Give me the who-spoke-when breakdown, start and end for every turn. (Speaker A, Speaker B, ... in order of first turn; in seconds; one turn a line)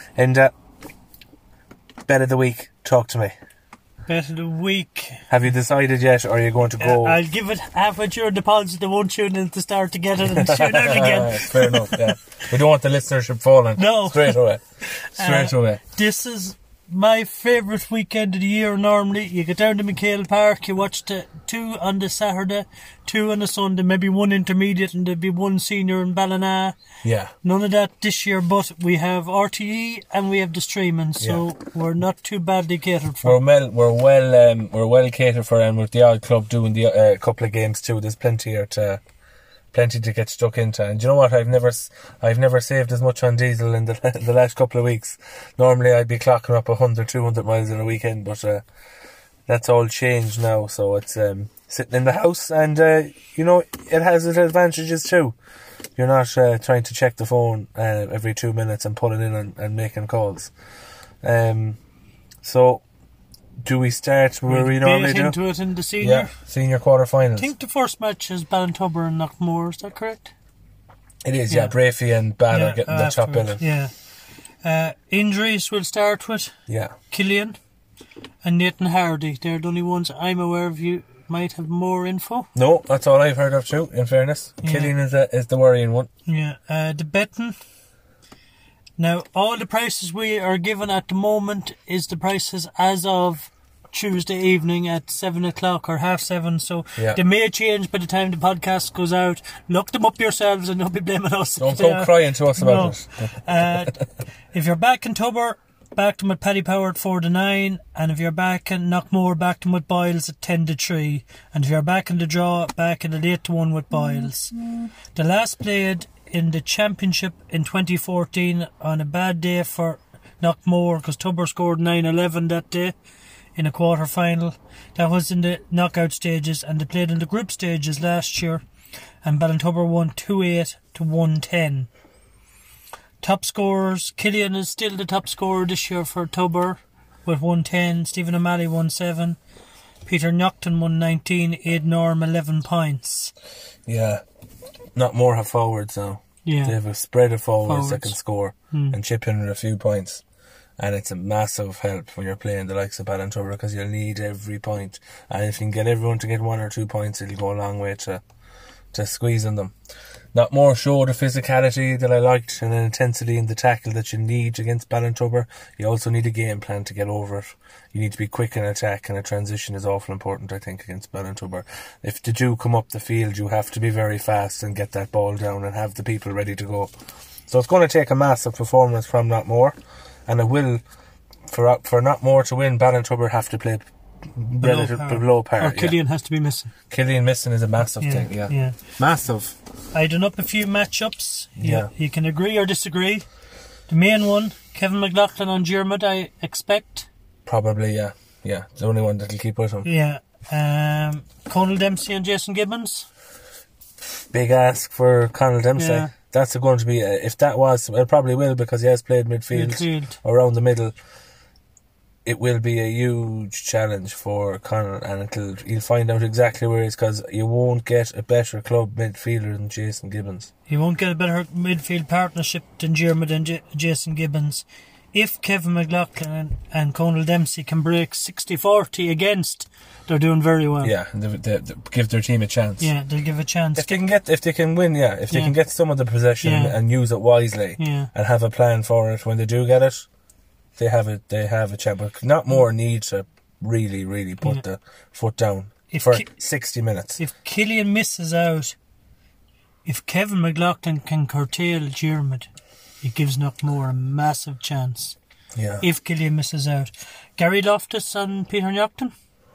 Speaker A: 0.1-0.5
Speaker A: 2.0-3.3
Speaker B: 4.1-5.2
Speaker A: 5.3-7.2
Speaker B: 6.8-12.1
Speaker A: 10.2-14.6
Speaker B: 13.8-26.8
Speaker A: 15.1-15.8
Speaker A: 27.0-27.3
Speaker B: 27.4-33.4
Speaker A: 33.2-39.0
Speaker A: 39.7-48.6
Speaker A: 49.5-55.4
Speaker A: 56.0-60.5
Speaker A: 61.2-61.8
Speaker A: 62.4-62.8
Speaker A: 63.6-65.4
Speaker B: 64.5-66.3
Speaker A: 66.0-67.5
Speaker B: 67.4-70.3
Speaker A: 71.2-73.6
Speaker B: 72.5-73.9
Speaker B: 74.6-76.5
Speaker A: 76.7-76.9
Speaker B: 77.1-77.6
Speaker B: 78.4-82.5
Speaker A: 82.5-86.1
Speaker B: 84.6-84.9
Speaker B: 86.2-87.5
Speaker B: 89.0-104.0
Speaker A: 101.6-103.8
Speaker B: 104.5-114.6
Speaker B: 115.1-122.9
Speaker B: 123.5-128.6
Speaker B: 129.2-131.9
Speaker B: 133.2-139.4
Speaker B: 140.1-143.3
Speaker A: 143.9-144.2
Speaker A: 144.9-150.2
Speaker B: 146.4-146.8
Speaker B: 147.7-148.1
Speaker A: 150.8-158.2
Speaker A: 158.9-159.7
Speaker A: 160.3-176.9
Speaker A: 177.5-180.8
Speaker A: 181.5-185.9
Speaker B: 184.6-186.7
Speaker A: 186.9-189.5
Speaker B: 188.0-188.8
Speaker B: 189.9-193.2
Speaker A: 191.6-191.9
Speaker B: 193.9-197.1
Speaker A: 197.4-199.9
Speaker B: 199.8-203.1
Speaker A: 204.1-210.9
Speaker B: 205.8-206.1
Speaker B: 209.5-210.2
Speaker A: 212.2-220.5
Speaker B: 220.7-230.9
Speaker A: 230.8-232.9
Speaker B: 232.8-234.0
Speaker A: 233.8-240.1
Speaker B: 236.4-236.8
Speaker B: 237.8-238.1
Speaker A: 240.8-247.2
Speaker B: 245.9-246.3
Speaker B: 247.2-248.8
Speaker B: 249.8-252.5
Speaker B: 253.0-255.2
Speaker A: 255.5-255.8
Speaker B: 255.8-259.1